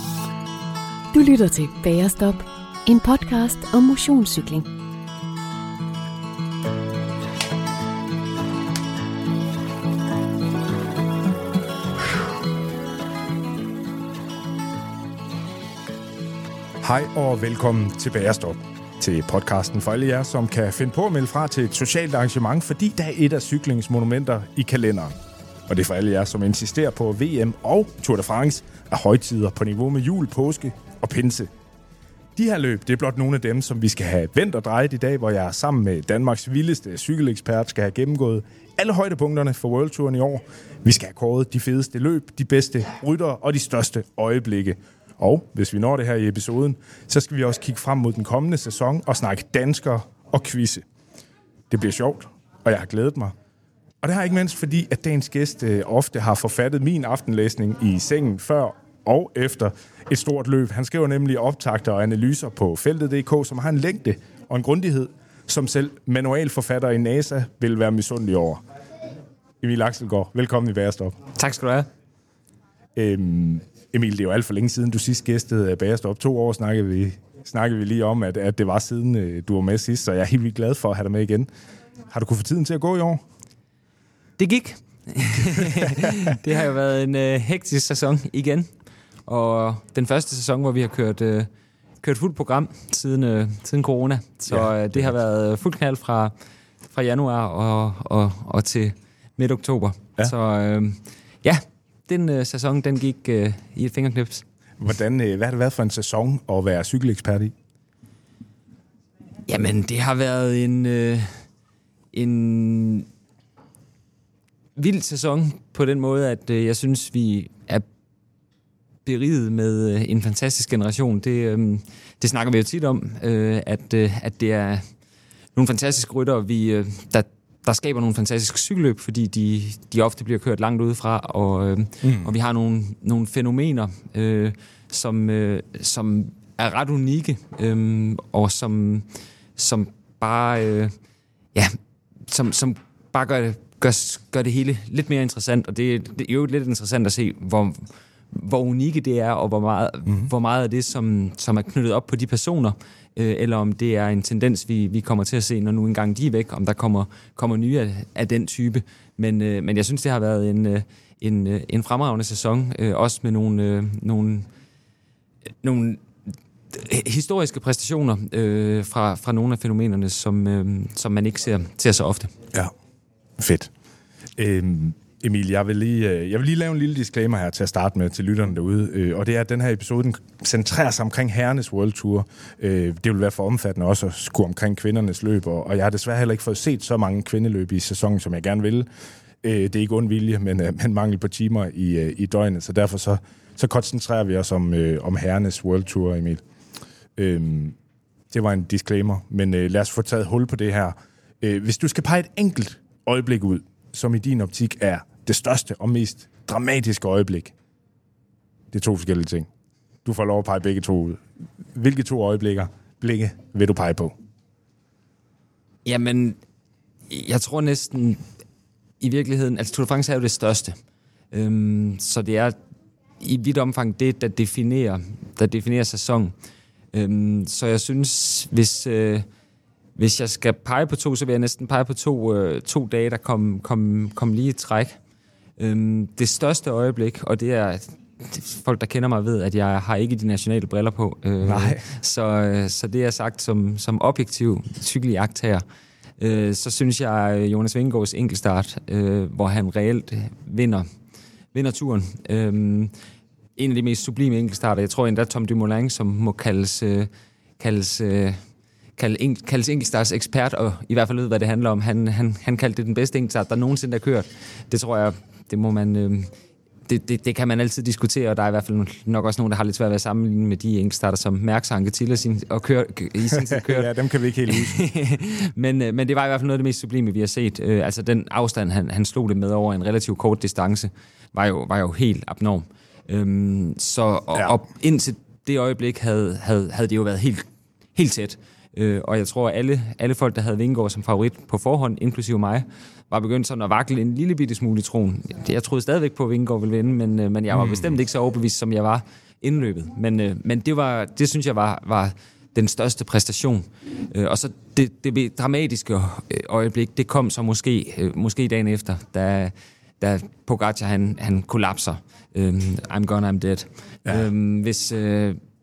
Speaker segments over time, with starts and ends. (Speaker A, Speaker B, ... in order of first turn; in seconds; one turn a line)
Speaker A: 1.1-4.7
Speaker B: 16.8-25.2
Speaker B: 25.7-31.5
Speaker B: 32.4-50.8
Speaker B: 51.7-53.3
Speaker B: 54.0-68.6
Speaker B: 69.6-71.2
Speaker C: 71.4-71.9
Speaker B: 73.0-81.5
Speaker B: 82.1-83.2
Speaker C: 84.4-88.7
Speaker C: 89.3-91.5
Speaker C: 92.0-96.3
Speaker C: 96.9-104.4
Speaker B: 104.8-107.5
Speaker C: 109.5-111.4
Speaker C: 112.1-113.1
Speaker C: 114.8-117.8
Speaker C: 119.0-124.8
Speaker C: 125.5-140.9
Speaker B: 132.0-132.3
Speaker C: 142.3-164.5
Speaker C: 165.6-166.0
Speaker C: 166.7-172.3
Speaker B: 173.4-173.7
Speaker B: 174.4-188.9
Speaker B: 189.4-196.4
Speaker B: 197.2-197.8
Speaker B: 198.3-207.5
Speaker B: 208.7-209.5
Speaker B: 210.1-211.2
Speaker B: 211.8-214.1
Speaker C: 215.8-216.4
Speaker C: 217.1-218.2
Speaker C: 219.0-220.8
Speaker C: 221.3-222.6
Speaker C: 223.2-226.3
Speaker C: 226.9-229.2
Speaker C: 230.0-235.0
Speaker C: 235.6-245.6
Speaker B: 241.4-241.8
Speaker C: 246.2-250.9
Speaker C: 251.5-252.9
Speaker C: 253.6-258.4
Speaker C: 259.0-266.3
Speaker C: 266.9-273.9
Speaker B: 273.3-274.8
Speaker C: 274.5-315.4
Speaker B: 297.5-297.9